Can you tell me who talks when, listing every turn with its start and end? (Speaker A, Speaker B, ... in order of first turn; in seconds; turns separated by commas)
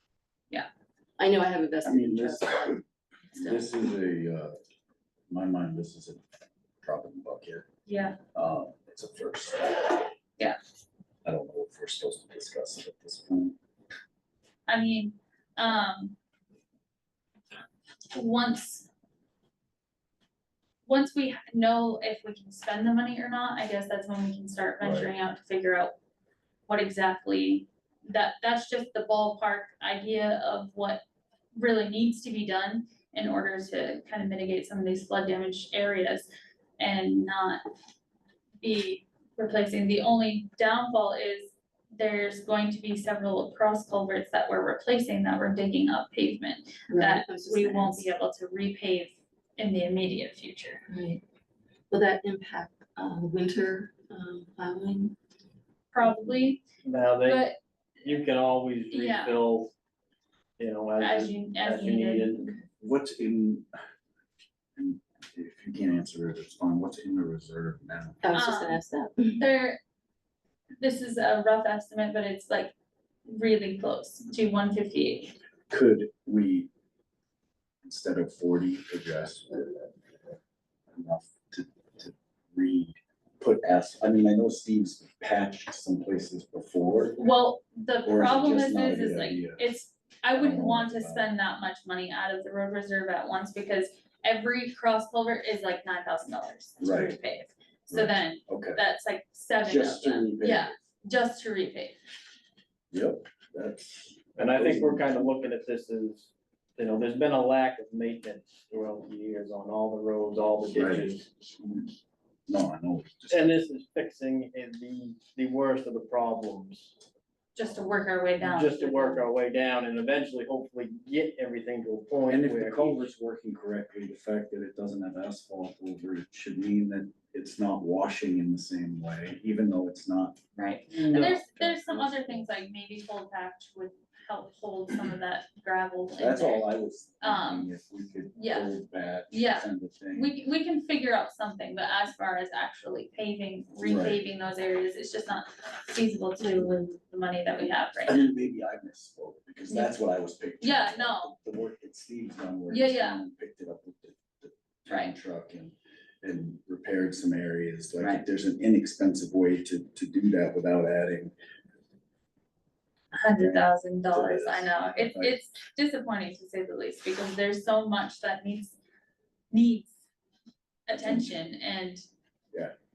Speaker A: 1.2-2.8, Speaker B: 1.8-2.8, Speaker A: 3.3-3.8, Speaker B: 3.4-4.5, Speaker B: 5.3-6.2, Speaker B: 6.8-7.7, Speaker C: 7.9-8.2, Speaker B: 8.3-10.1, Speaker B: 11.2-13.6, Speaker C: 14.7-16.2, Speaker C: 18.1-18.9, Speaker C: 20.9-25.9, Speaker B: 24.8-25.1, Speaker C: 26.7-31.0, Speaker C: 31.6-36.3, Speaker C: 36.8-37.6, Speaker C: 38.6-50.8, Speaker A: 46.9-48.1, Speaker A: 50.9-51.2, Speaker A: 51.9-55.1, Speaker C: 55.9-56.6, Speaker D: 56.8-57.4, Speaker C: 57.2-57.5, Speaker D: 58.0-59.7, Speaker C: 58.9-59.4, Speaker D: 60.6-62.5, Speaker C: 61.0-62.4, Speaker B: 62.8-63.8, Speaker B: 64.8-68.2, Speaker A: 68.2-69.4, Speaker C: 68.3-68.8, Speaker C: 69.4-69.8, Speaker C: 70.8-72.7, Speaker C: 73.3-75.3, Speaker B: 75.7-76.7, Speaker B: 77.8-79.9, Speaker B: 80.9-87.2, Speaker C: 87.2-102.0, Speaker B: 88.0-89.6, Speaker B: 90.3-91.3, Speaker B: 96.8-97.2, Speaker B: 97.9-98.8, Speaker B: 99.6-100.7, Speaker B: 102.9-105.3, Speaker D: 104.4-111.3, Speaker B: 110.7-111.9, Speaker B: 112.5-113.6, Speaker D: 113.3-116.9, Speaker C: 117.6-119.2, Speaker D: 118.4-123.1, Speaker B: 122.3-130.4, Speaker C: 130.6-136.7, Speaker B: 130.9-132.5, Speaker D: 131.0-131.3, Speaker B: 136.2-140.3, Speaker C: 137.2-137.7, Speaker C: 138.3-138.7, Speaker C: 139.3-148.2, Speaker B: 143.8-144.2, Speaker B: 148.1-161.3, Speaker C: 150.6-151.3, Speaker C: 152.7-153.2, Speaker C: 154.9-155.1, Speaker C: 163.2-168.8, Speaker B: 163.3-165.4, Speaker C: 169.5-169.9, Speaker C: 170.9-172.1, Speaker B: 170.9-171.4